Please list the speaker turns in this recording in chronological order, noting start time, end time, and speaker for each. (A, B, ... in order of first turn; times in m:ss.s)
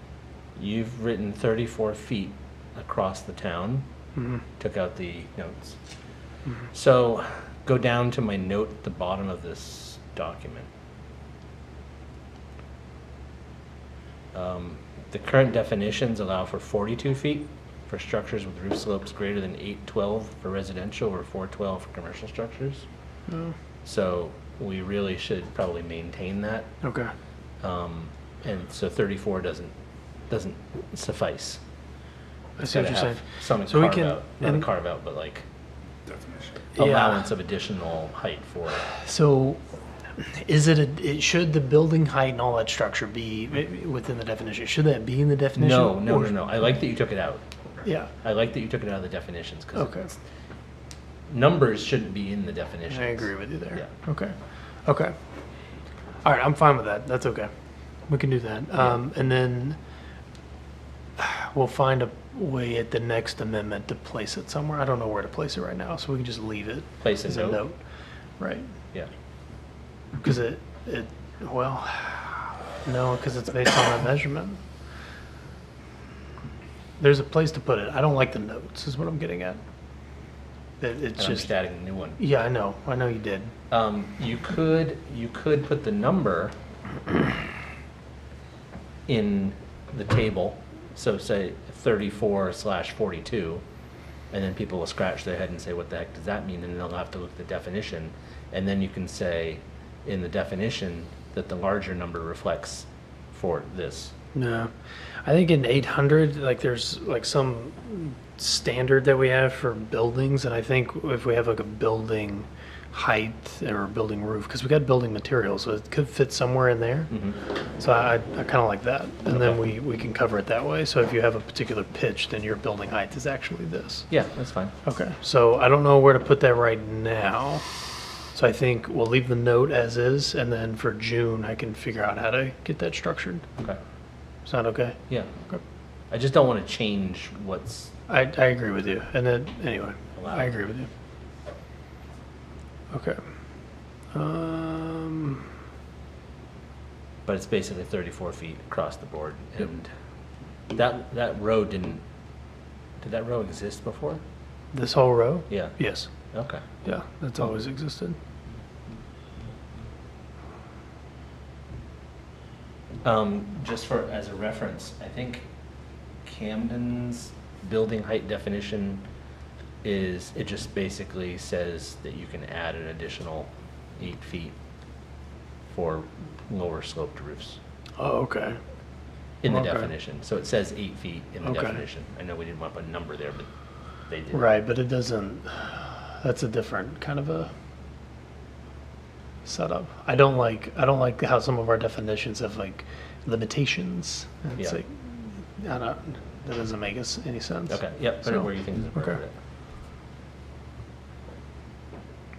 0:00.6-0:03.9 A
0:04.6-0:05.8 A
0:06.7-0:10.7 A
0:14.3-0:22.9 A
0:23.3-0:23.6 B
0:23.8-0:26.7 A
0:26.8-0:27.1 B
0:27.6-0:29.7 A
0:30.3-0:31.6 A
0:32.6-0:34.7 B
0:32.6-0:35.4 A
0:36.8-0:37.3 B
0:36.8-0:38.9 A
0:38.9-0:39.6 B
0:40.2-0:46.4 B
0:45.6-0:47.4 A
0:47.8-0:48.1 B
0:48.2-0:50.0 A
0:49.8-0:50.1 B
0:51.3-0:53.9 A
0:52.9-0:54.4 B
0:54.9-0:55.1 B
0:56.2-0:57.5 B
0:58.1-0:59.8 B
1:01.2-1:07.8 B
1:07.0-1:07.6 A
1:08.4-1:08.7 B
1:10.2-1:14.6 B
1:17.0-1:19.6 B
1:20.8-1:21.5 B
1:21.2-1:22.2 A
1:22.2-1:23.5 B
1:23.7-1:26.6 A
1:29.1-1:33.6 A
1:34.3-1:44.1 A
1:44.4-1:44.7 B
1:45.2-1:57.1 B
1:57.1-1:57.4 A
1:57.8-2:04.1 B
2:04.1-2:04.7 A
2:04.8-2:07.6 B
2:08.3-2:13.4 B
2:14.5-2:15.6 B
2:16.1-2:17.9 A
2:18.1-2:20.9 B
2:20.2-2:20.5 A
2:22.9-2:23.2 B
2:24.1-2:25.5 B
2:27.3-2:29.9 A
2:30.7-2:32.0 A
2:33.0-2:34.2 A
2:34.7-2:36.1 B
2:35.5-2:35.8 A
2:36.3-2:36.6 A
2:36.8-2:38.2 B
2:43.0-2:45.5 A
2:46.2-2:49.0 A
2:49.8-2:54.6 A
2:55.7-2:57.6 A
2:58.0-2:58.6 B
2:59.4-3:03.5 A
2:59.5-2:59.9 B
3:01.4-3:01.8 B
3:04.1-3:04.5 A
3:04.3-3:07.5 B
3:09.4-3:19.2 B
3:17.7-3:19.4 A